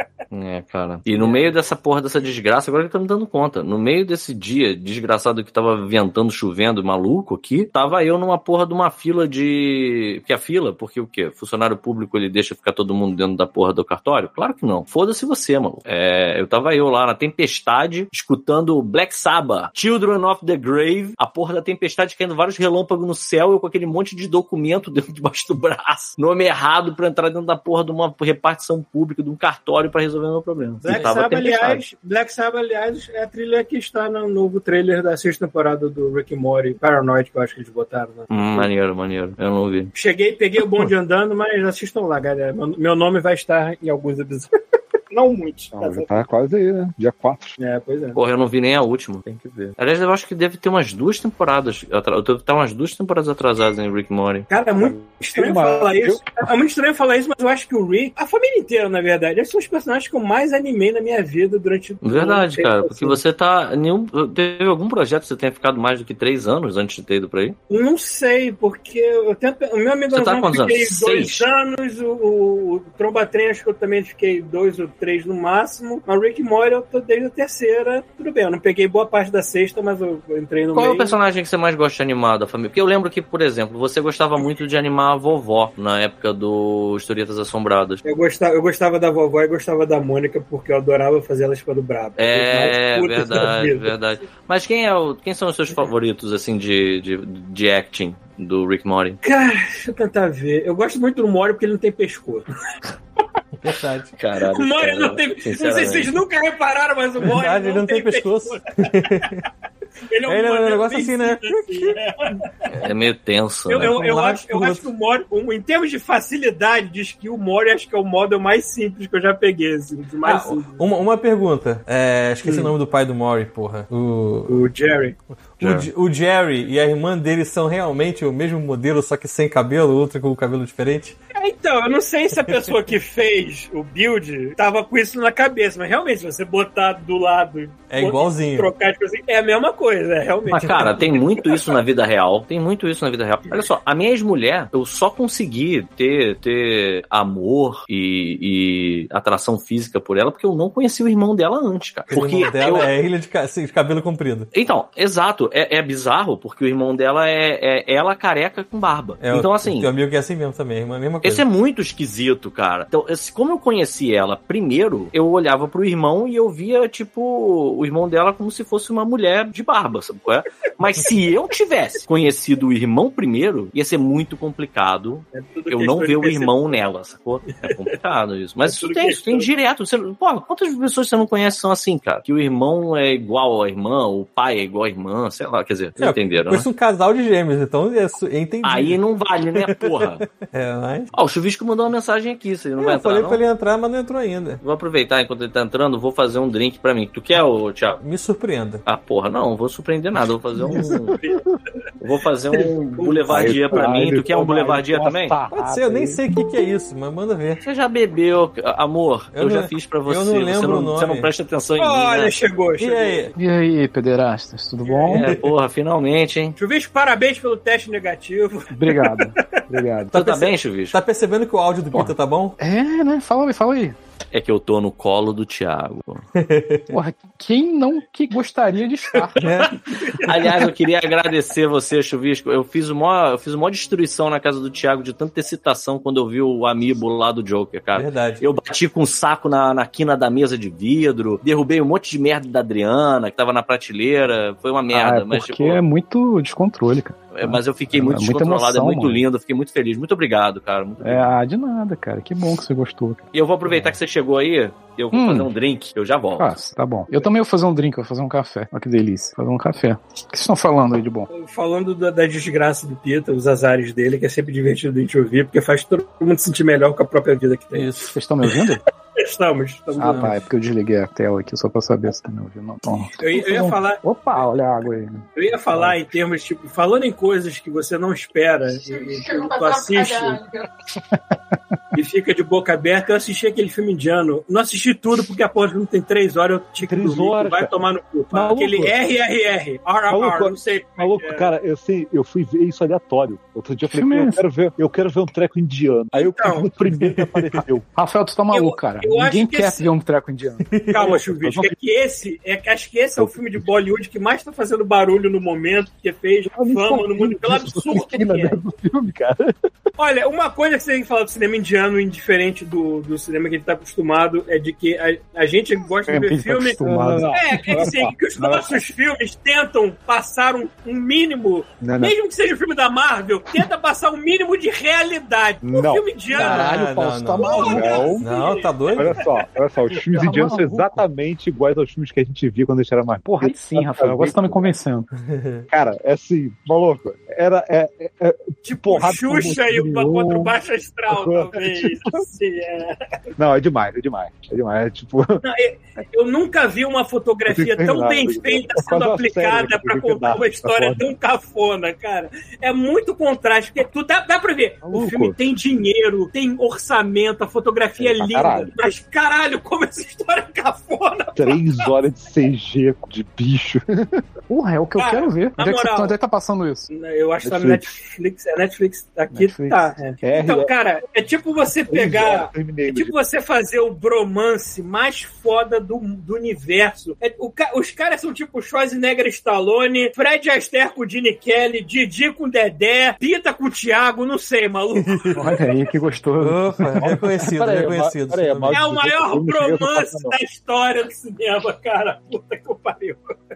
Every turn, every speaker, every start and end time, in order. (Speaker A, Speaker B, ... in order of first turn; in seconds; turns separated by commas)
Speaker A: 0.3-31.8, Speaker B: 1.2-1.5, Speaker B: 30.8-38.7, Speaker A: 38.3-39.9, Speaker B: 39.9-44.5, Speaker B: 45.1-46.2, Speaker C: 45.7-47.5, Speaker B: 47.6-48.2, Speaker A: 48.1-54.5, Speaker B: 54.5-63.2, Speaker C: 54.8-56.2, Speaker A: 62.0-67.6, Speaker B: 67.7-81.2, Speaker A: 70.1-71.5, Speaker A: 80.7-88.0, Speaker B: 88.0-93.9, Speaker A: 92.2-99.2, Speaker B: 99.2-102.5, Speaker D: 103.6-104.1, Speaker A: 104.2-106.2, Speaker B: 104.5-109.3, Speaker D: 107.2-109.5, Speaker B: 110.1-112.7, Speaker D: 110.2-112.0, Speaker A: 112.7-113.9, Speaker B: 113.7-120.8, Speaker D: 113.8-114.9, Speaker D: 120.2-124.6, Speaker B: 122.4-122.7, Speaker B: 124.5-125.2, Speaker D: 125.6-131.2, Speaker A: 125.6-125.9, Speaker B: 131.3-141.8, Speaker D: 137.9-138.7, Speaker A: 140.5-152.9, Speaker D: 140.5-140.9, Speaker D: 152.1-154.5, Speaker B: 152.4-152.9, Speaker A: 154.5-159.9, Speaker D: 159.2-161.4, Speaker A: 161.2-186.7, Speaker B: 175.3-176.8, Speaker B: 178.6-179.5, Speaker D: 186.0-189.0, Speaker A: 188.6-190.2, Speaker D: 189.5-191.1, Speaker A: 191.1-193.4, Speaker D: 192.8-194.6, Speaker A: 194.6-198.0, Speaker D: 198.0-198.8, Speaker A: 198.8-201.2, Speaker C: 200.6-201.4, Speaker B: 201.1-201.5, Speaker A: 202.0-205.3, Speaker B: 203.0-204.0, Speaker C: 203.3-206.2, Speaker D: 205.5-207.6, Speaker A: 207.6-212.3, Speaker D: 209.3-211.3, Speaker B: 211.8-213.2, Speaker D: 212.8-213.3, Speaker E: 213.3-215.3, Speaker B: 214.8-215.2, Speaker A: 215.1-216.6, Speaker B: 216.6-219.5, Speaker E: 218.7-220.1, Speaker D: 220.1-222.6, Speaker A: 220.1-220.9, Speaker E: 221.9-224.0, Speaker A: 224.3-226.2, Speaker D: 226.3-226.9, Speaker E: 226.9-229.4, Speaker D: 229.4-229.7, Speaker B: 229.7-230.4, Speaker A: 230.2-245.8, Speaker D: 237.9-238.4, Speaker E: 244.9-249.2, Speaker A: 247.3-251.3, Speaker E: 251.0-253.9, Speaker A: 253.3-256.5, Speaker E: 255.1-255.5, Speaker E: 256.4-261.3, Speaker B: 261.3-268.0, Speaker D: 267.7-268.1, Speaker E: 268.1-268.8, Speaker B: 269.2-270.3, Speaker E: 270.0-275.9, Speaker D: 270.0-270.5, Speaker B: 273.2-274.4, Speaker B: 275.4-280.4, Speaker B: 281.9-291.5, Speaker C: 286.8-287.7, Speaker C: 288.3-288.9, Speaker C: 290.1-297.9, Speaker E: 293.9-294.4, Speaker B: 296.1-296.7, Speaker D: 297.0-297.6, Speaker E: 297.9-300.7, Speaker B: 298.5-299.9, Speaker D: 300.6-301.1, Speaker B: 300.9-308.6, Speaker C: 301.0-301.7, Speaker C: 306.5-309.5, Speaker B: 310.0-316.8, Speaker E: 316.1-317.9, Speaker C: 316.8-318.8, Speaker B: 317.3-326.7, Speaker C: 321.8-322.1, Speaker C: 325.6-326.0, Speaker E: 326.3-328.2, Speaker D: 326.4-329.2, Speaker B: 327.4-329.4, Speaker C: 327.5-328.2, Speaker C: 328.9-334.7, Speaker E: 330.1-331.0, Speaker E: 333.2-335.1, Speaker D: 335.1-335.7, Speaker C: 335.7-340.5, Speaker B: 338.6-343.1, Speaker C: 341.1-342.2, Speaker C: 343.4-345.4, Speaker B: 345.4-361.9, Speaker C: 347.5-351.0, Speaker C: 354.9-355.3, Speaker C: 358.0-358.7, Speaker C: 361.4-364.2, Speaker E: 364.5-366.9, Speaker B: 365.0-366.1, Speaker B: 366.9-385.8, Speaker C: 367.4-367.9, Speaker E: 369.3-370.0, Speaker C: 370.2-370.7, Speaker C: 371.9-373.1, Speaker D: 384.9-385.4, Speaker E: 385.4-387.1, Speaker D: 386.4-388.9, Speaker C: 387.0-390.3, Speaker B: 388.7-393.3